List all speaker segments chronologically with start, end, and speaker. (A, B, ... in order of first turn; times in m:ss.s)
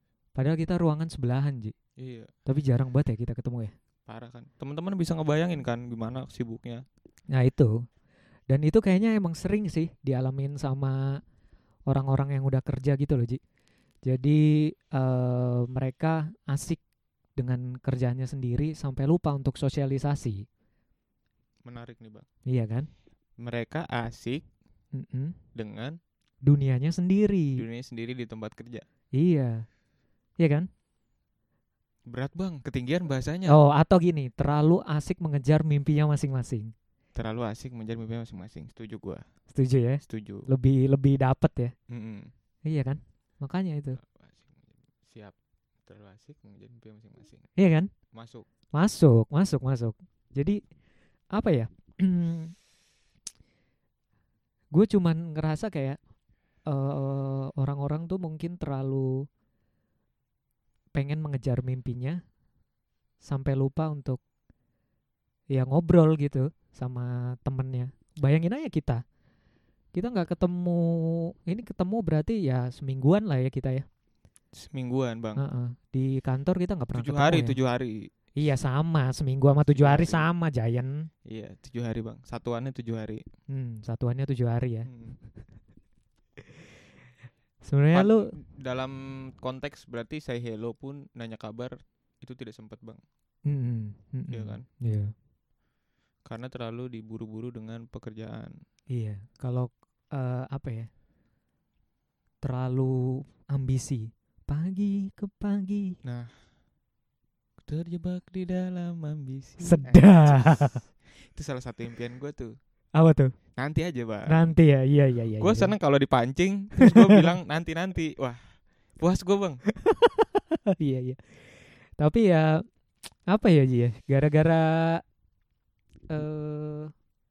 0:00.4-0:01.7 A
0:02.0-0:02.3 B
0:02.4-0:03.7 A
0:04.1-0:06.8 B
0:07.3-0:07.8 A
0:08.5-0:11.2 A
0:11.9-0:13.4 A
0:14.0-0:16.8 A
0:17.4-0:20.4 A
0:21.6-0:22.2 B
0:22.4-0:22.9 A
0:23.4-0:24.4 B
0:24.9-0:25.4 A
0:25.5-0:26.0 B
0:26.4-0:27.6 A
0:27.6-0:28.8 B
0:29.1-0:29.6 A
0:30.4-0:30.7 A
0:32.1-0:33.6 B
0:33.5-0:36.7 A
0:37.1-0:39.2 B
0:39.5-0:41.7 A
0:40.0-0:40.5 B
0:41.9-0:42.3 B
0:42.6-0:44.0 A
0:44.0-0:45.3 B
0:45.8-0:47.4 B
0:47.6-0:47.9 A
0:48.1-0:48.4 B
0:48.7-0:50.6 A
0:51.3-0:52.5 A
0:54.7-0:56.0 A
0:56.7-0:59.2 A
1:00.9-1:02.2 A
1:03.2-1:04.2 A
1:05.5-1:09.0 A
1:09.9-1:13.8 A
1:14.5-1:15.4 B
1:15.4-1:17.6 A
1:17.0-1:18.1 B
1:18.4-1:21.1 A
1:19.8-1:20.3 B
1:21.2-1:23.2 B
1:23.5-1:24.9 A
1:24.9-1:25.2 B
1:27.6-1:28.3 A
1:27.9-1:33.0 B
1:33.4-1:35.1 A
1:34.3-1:34.6 B
1:36.2-1:38.5 B
1:38.9-1:40.9 A
1:42.4-1:46.0 A
1:46.0-1:46.3 B
1:47.6-1:52.5 B
1:49.6-1:50.8 A
1:53.0-1:53.3 A
1:53.6-1:54.5 B
1:54.3-1:55.7 A
1:55.4-1:59.6 B
1:56.8-1:57.3 A
1:59.8-2:01.4 A
2:02.0-2:02.6 A
2:03.3-2:05.0 A
2:06.1-2:06.9 A